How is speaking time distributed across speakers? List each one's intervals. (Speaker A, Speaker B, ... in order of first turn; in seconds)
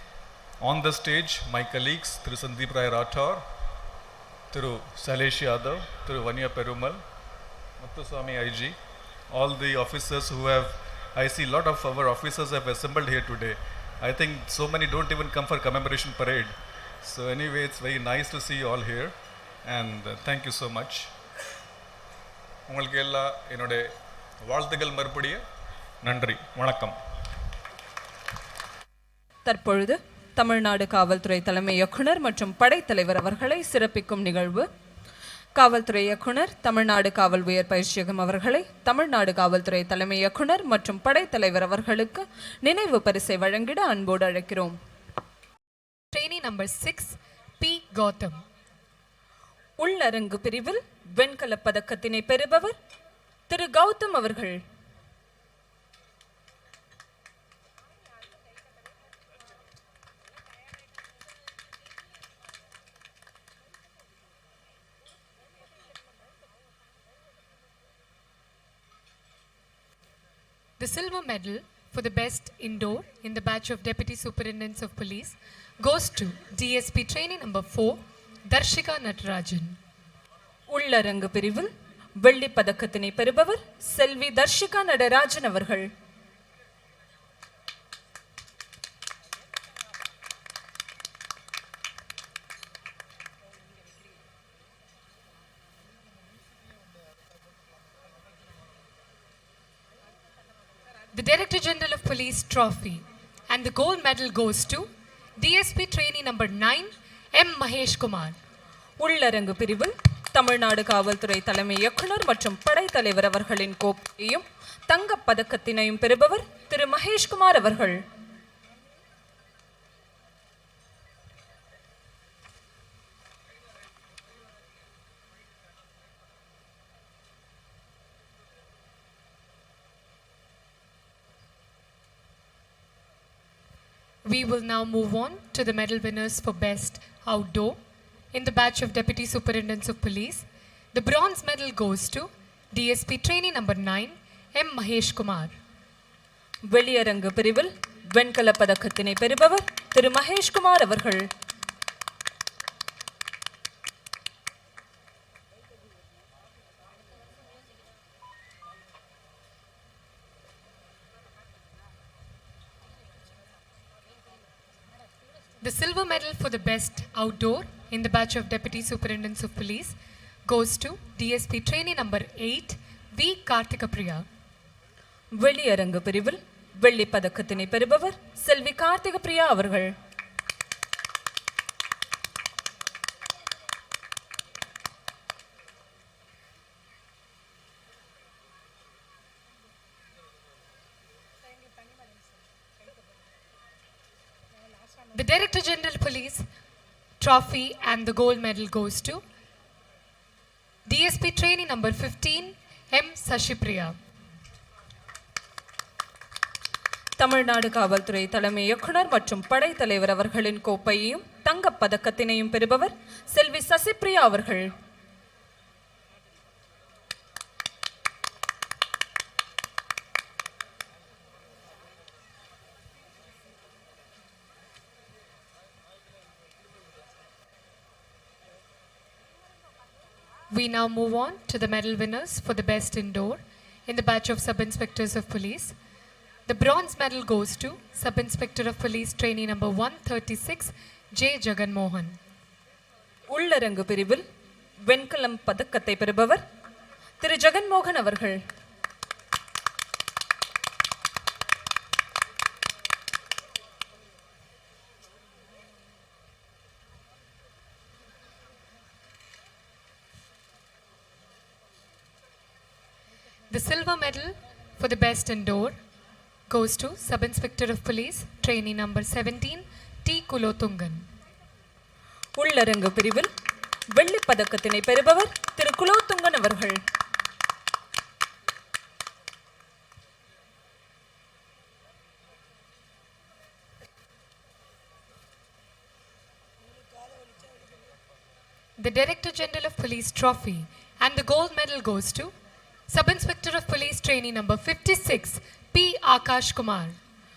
Speaker A: 0.6-3.4, 4.5-7.0, 7.8-8.8, 9.3-19.1, 19.6-21.1, 22.7-23.9, 24.4-25.4, 26.0-27.0
Speaker B: 29.4-34.6, 35.5-44.8, 49.8-52.7, 53.5-54.6, 80.7-85.9, 109.0-118.0, 146.7-151.2, 175.3-179.9, 207.2-214.7, 243.3-244.2, 244.9-246.4, 247.2-248.4, 272.4-273.3, 273.9-276.8
Speaker C: 46.1-48.4, 70.8-79.8, 101.1-108.3, 134.2-137.8, 138.3-145.6, 165.6-169.9, 170.5-174.2, 195.1-196.4, 197.2-199.2, 200.9-204.0, 230.5-235.7, 236.4-242.2, 263.5-265.8, 266.5-271.1, 288.8-292.3, 292.9-297.0